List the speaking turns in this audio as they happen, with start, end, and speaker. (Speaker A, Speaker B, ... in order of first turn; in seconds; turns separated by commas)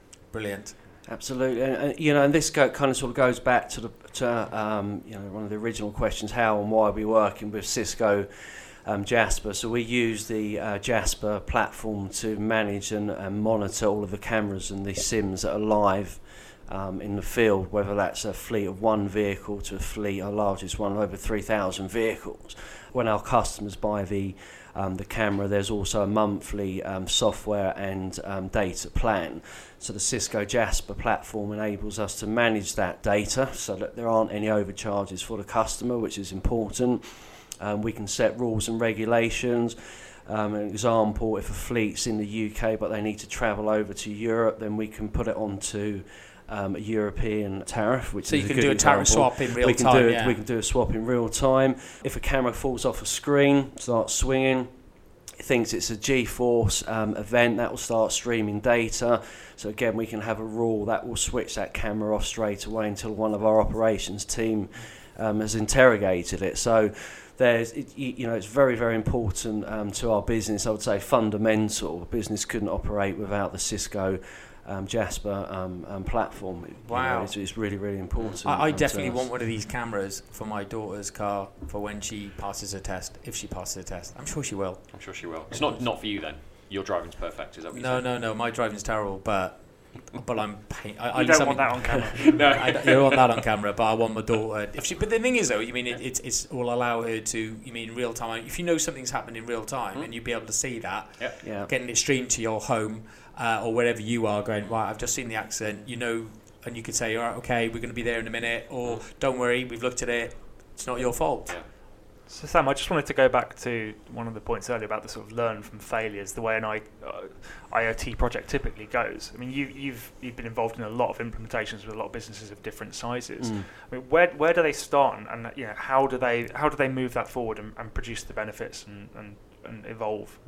Speaker A: 0.3-0.7, Speaker B: 1.1-8.3, Speaker B: 8.8-79.3, Speaker A: 48.2-50.4, Speaker A: 76.8-77.3, Speaker A: 78.4-85.6, Speaker C: 84.9-88.1, Speaker A: 87.7-111.6, Speaker D: 91.1-92.3, Speaker C: 92.2-93.4, Speaker B: 101.4-101.7, Speaker D: 112.2-130.4, Speaker B: 123.4-123.7